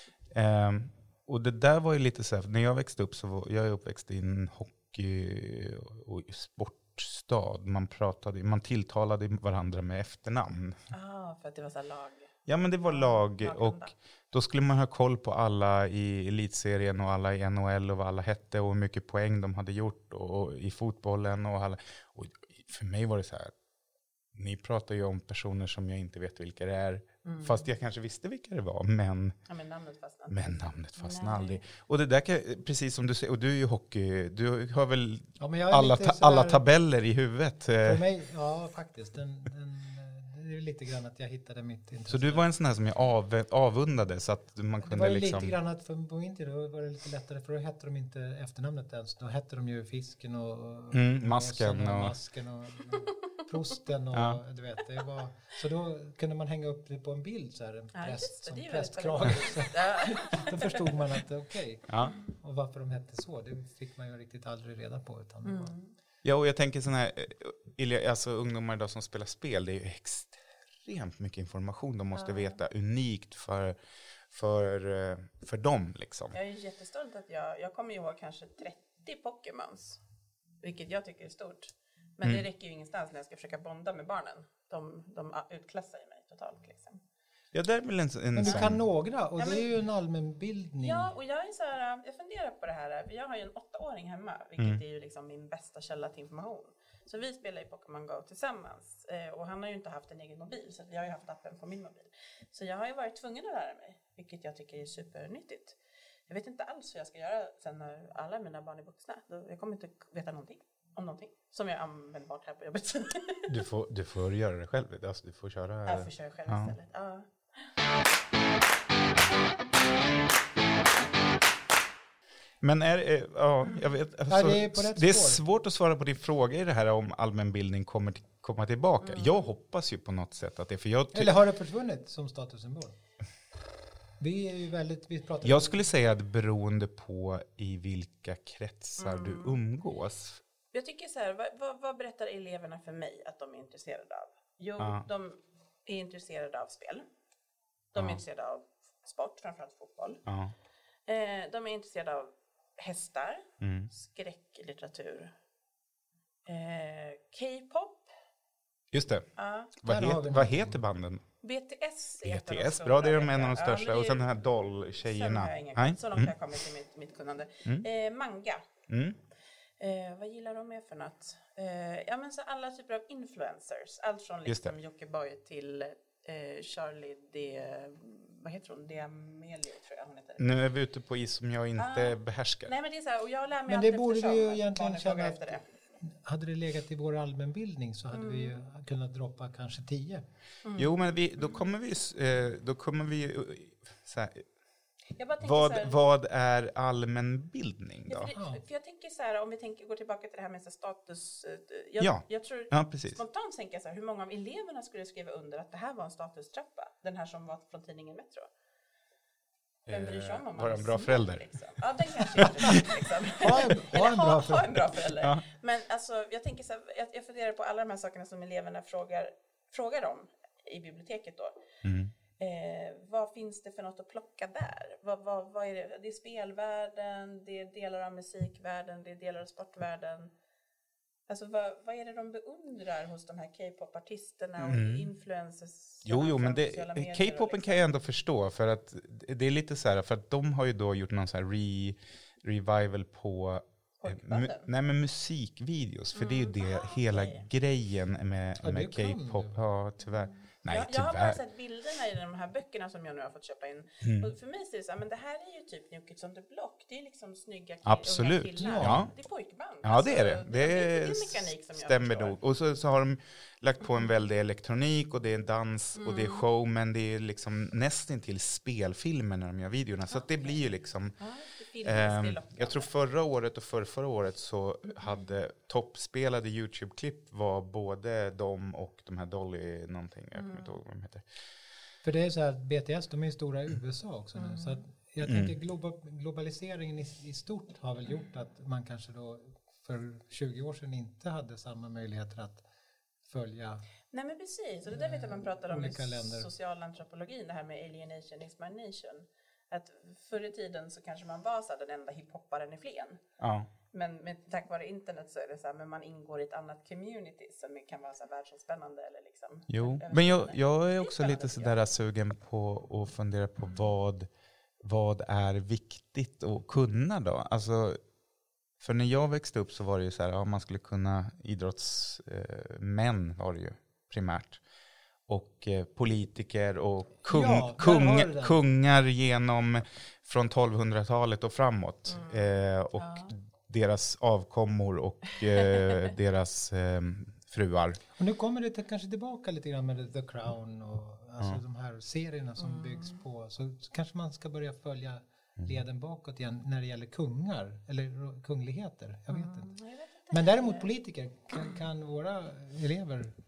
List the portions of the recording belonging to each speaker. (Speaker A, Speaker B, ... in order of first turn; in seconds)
Speaker A: 0.3-10.8, 12.5-23.5, 24.3-29.4, 30.3-38.0, 42.1-45.5, 50.9-52.1, 54.1-54.4, 61.9-62.1, 66.2-73.8, 74.3-76.4, 87.5-88.8, 113.5-116.8, 122.6-131.4, 135.4-140.4, 144.8-145.0, 150.3-150.5, 153.6-153.9, 158.9-159.3, 159.8-161.2, 162.2-166.3, 168.9-169.2, 174.5-174.8, 180.4-182.7, 190.8-194.4, 195.4-198.3, 202.0-203.2, 209.9-211.5, 212.4-212.8, 221.8-222.1, 234.6-235.1, 236.1-251.4, 254.0-254.3, 257.9-259.1, 259.8-271.1, 271.8-281.2, 285.2-285.5, 303.4-303.7, 309.7-314.3, 314.8-318.0, 318.8-324.6, 325.3-338.0
Speaker B: 10.9-12.3, 12.8-13.9, 27.2-27.6, 29.5-31.6, 57.9-61.0, 65.4-65.9, 72.2-72.6, 76.3-80.0, 80.6-87.0, 89.4-89.7, 90.8-105.8, 106.3-113.6, 115.9-117.7, 129.0-129.5, 139.0-139.6, 140.7-147.1, 147.9-150.2, 151.1-155.3, 156.5-158.1, 159.4-159.7, 161.4-164.2, 165.0-168.6, 169.8-180.5, 181.8-185.6, 188.1-188.6, 190.6-191.0, 195.2-196.0, 198.1-208.5, 209.9-221.6, 222.4-230.3, 231.3-237.9, 244.0-244.7, 246.1-247.5, 250.7-262.4, 266.0-266.4, 270.1-270.6, 271.2-272.9, 280.4-280.8, 284.4-284.8, 294.1-303.2, 303.9-311.8, 332.1-333.3, 335.5-336.1, 342.6-343.2, 349.3-350.9
Speaker C: 35.4-36.6, 37.8-42.5, 44.8-65.8, 88.3-91.1, 124.3-125.4, 131.1-133.0, 134.2-135.8, 159.9-160.8, 183.7-190.2, 198.3-198.6, 213.4-215.0, 248.6-249.6, 258.6-259.1, 282.0-292.6, 293.3-293.9, 294.9-296.5, 327.3-328.6, 338.2-349.7, 350.3-353.4